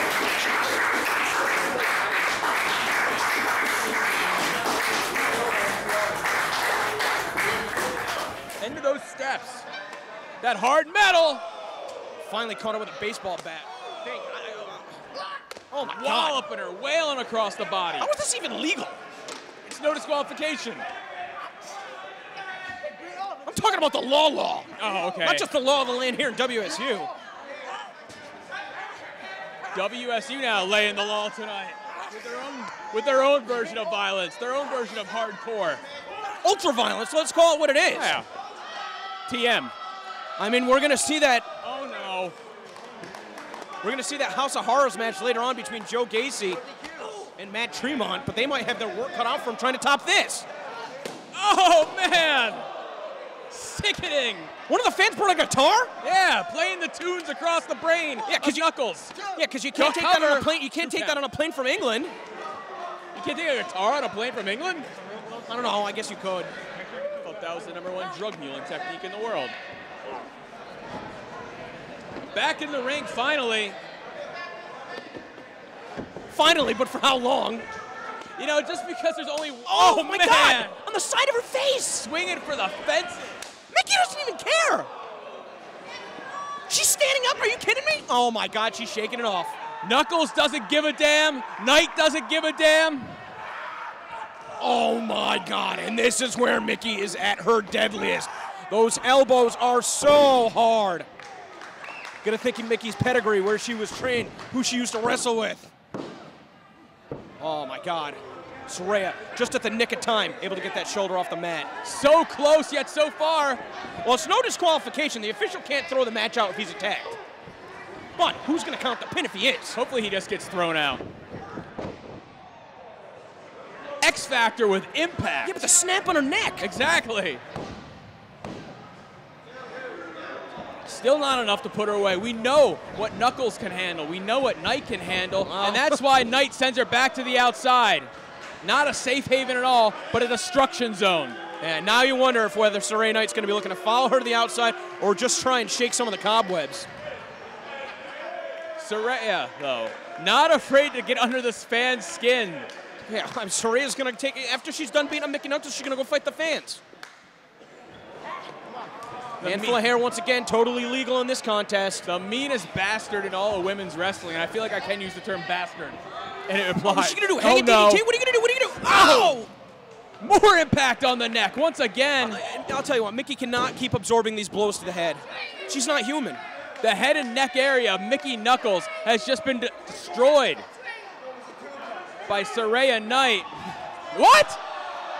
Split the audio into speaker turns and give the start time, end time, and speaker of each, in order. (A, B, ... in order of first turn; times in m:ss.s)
0:08.6-0:09.6 A
0:10.4-0:11.4 A
0:12.2-0:16.4 B
0:15.8-0:18.1 A
0:18.0-0:19.0 B
0:19.6-0:20.8 A
0:23.4-0:27.1 B
0:24.8-0:25.5 A
0:29.7-0:35.8 A
0:36.4-0:38.2 B
0:37.9-0:38.3 A
0:39.3-0:39.7 A
0:40.4-0:41.5 B
0:41.6-0:42.3 A
0:43.8-0:46.6 B
0:47.2-0:50.5 B
0:51.3-0:52.6 A
0:53.5-0:54.5 A
0:54.7-0:55.9 B
0:56.0-0:59.2 A
0:58.2-1:02.2 B
0:59.7-1:01.2 A
1:03.1-1:04.9 A
1:05.2-1:06.5 B
1:07.1-1:09.6 A
1:12.3-1:13.8 A
1:16.3-1:17.7 B
1:18.4-1:20.8 A
1:19.7-1:22.1 B
1:22.0-1:23.4 A
1:23.7-1:24.9 B
1:26.7-1:29.6 B
1:29.8-1:33.2 A
1:34.6-1:41.1 B
1:42.2-1:45.7 B
1:47.4-1:51.7 B
1:51.8-1:53.6 A
1:54.0-1:57.2 B
1:58.2-1:59.8 B
1:59.7-2:01.0 A
2:04.0-2:05.6 A
2:05.4-2:06.7 B
2:06.6-2:07.4 A
2:10.8-2:18.1 A
2:15.4-2:16.0 B
2:18.6-2:21.4 A
2:21.6-2:26.9 B
2:28.8-2:32.7 A
2:33.0-2:36.8 B
2:39.4-2:39.8 A
2:39.4-2:42.1 B
2:42.0-2:48.0 A
2:46.8-2:49.5 B
2:48.8-2:49.4 A
2:50.2-2:52.4 A
2:52.2-2:56.4 B
2:56.8-3:00.6 A
3:02.3-3:03.5 A
3:04.1-3:04.6 A